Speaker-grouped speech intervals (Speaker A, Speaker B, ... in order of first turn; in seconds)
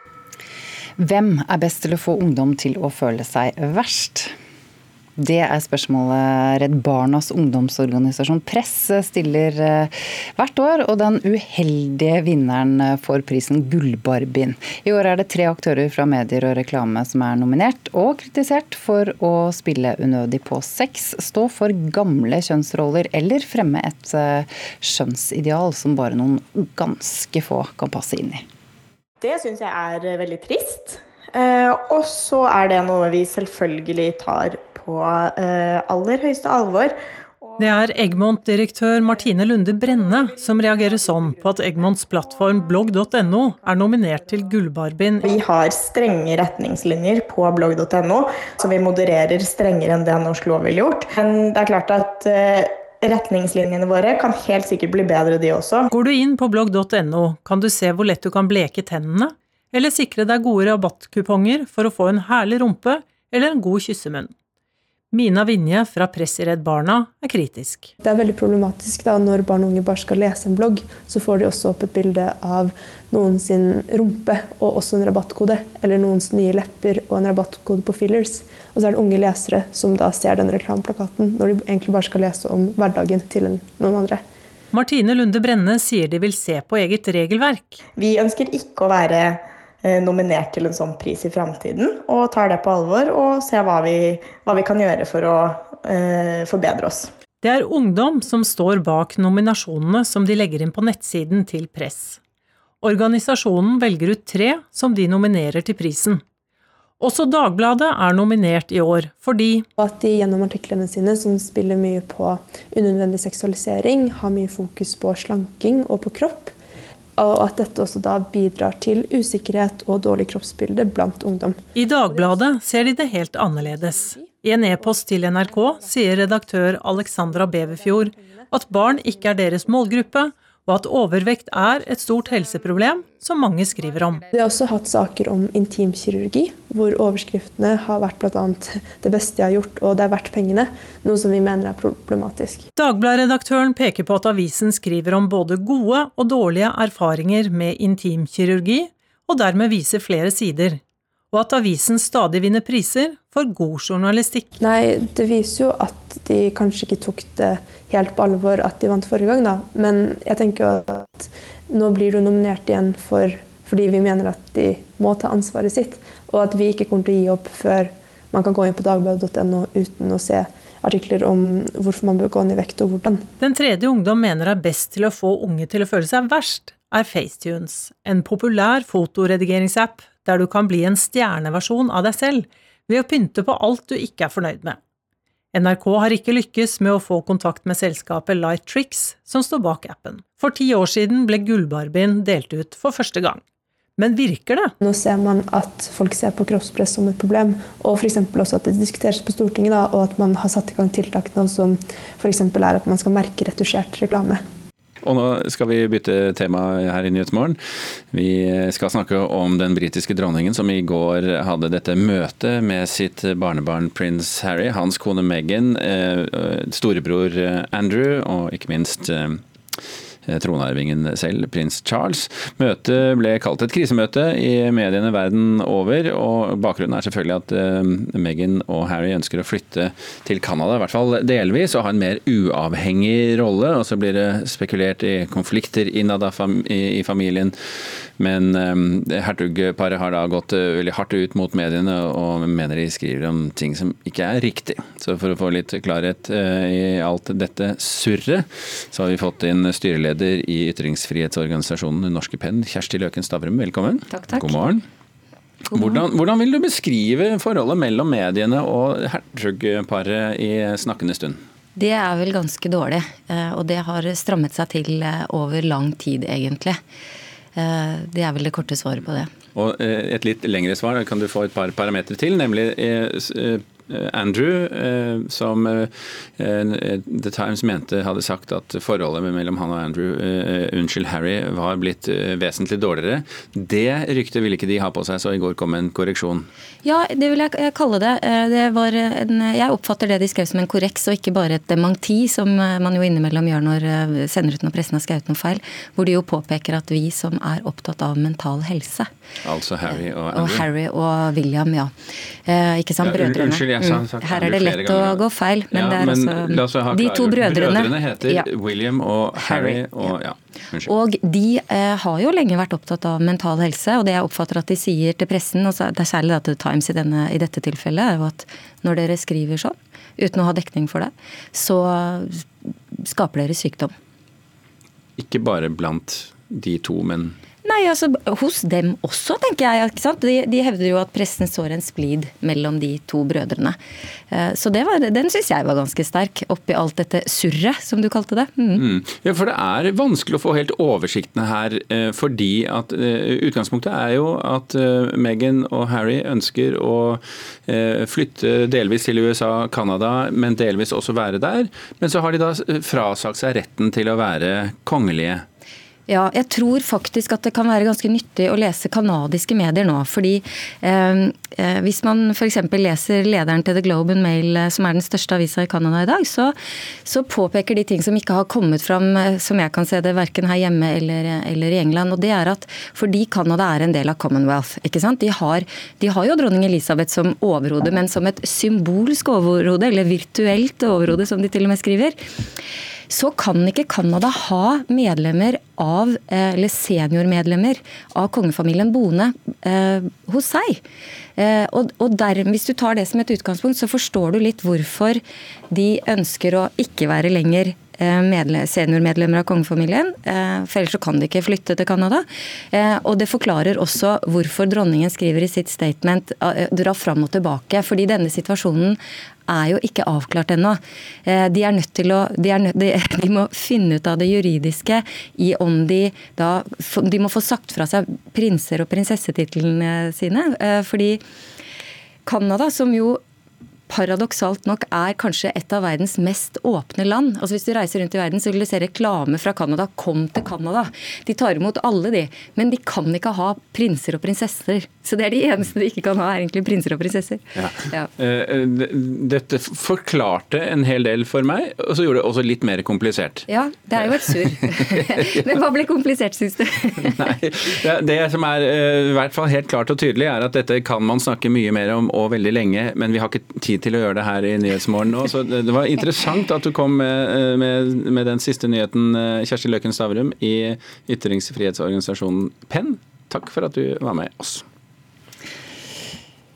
Speaker A: 1.0-4.3, 5.2-28.4
Speaker B: 29.2-37.9, 45.2-55.9, 88.0-97.1
Speaker C: 37.6-45.3, 55.9-64.3, 65.1-67.9, 84.7-87.8, 97.4-102.2, 102.8-106.2, 107.0-109.7, 121.7-134.2, 142.8-150.8, 151.3-154.5, 173.4-184.8, 185.5-193.4, 194.0-194.7
Speaker D: 68.0-84.2, 109.8-116.5, 117.2-124.1, 126.1-128.9, 134.3-142.7, 154.6-173.3, 194.8-204.4
Speaker E: 205.0-207.6, 208.1-219.4, 220.2-237.5, 238.2-254.8, 255.7-261.4, 269.5-286.5, 299.4-300.7, 303.0-310.9, 325.2-327.4, 338.7-355.4, 437.5-443.5, 444.0-445.1, 447.0-464.6
Speaker F: 254.2-254.5, 261.8-266.8, 267.6-269.3, 286.8-299.1, 300.3-301.9, 302.5-303.9, 304.5-307.9, 310.9-322.4, 323.0-323.9, 327.6-333.8, 334.3-338.8, 356.1-366.5, 367.1-382.1, 383.1-390.8, 391.4-421.2, 422.2-423.2, 423.9-438.1, 443.5-447.1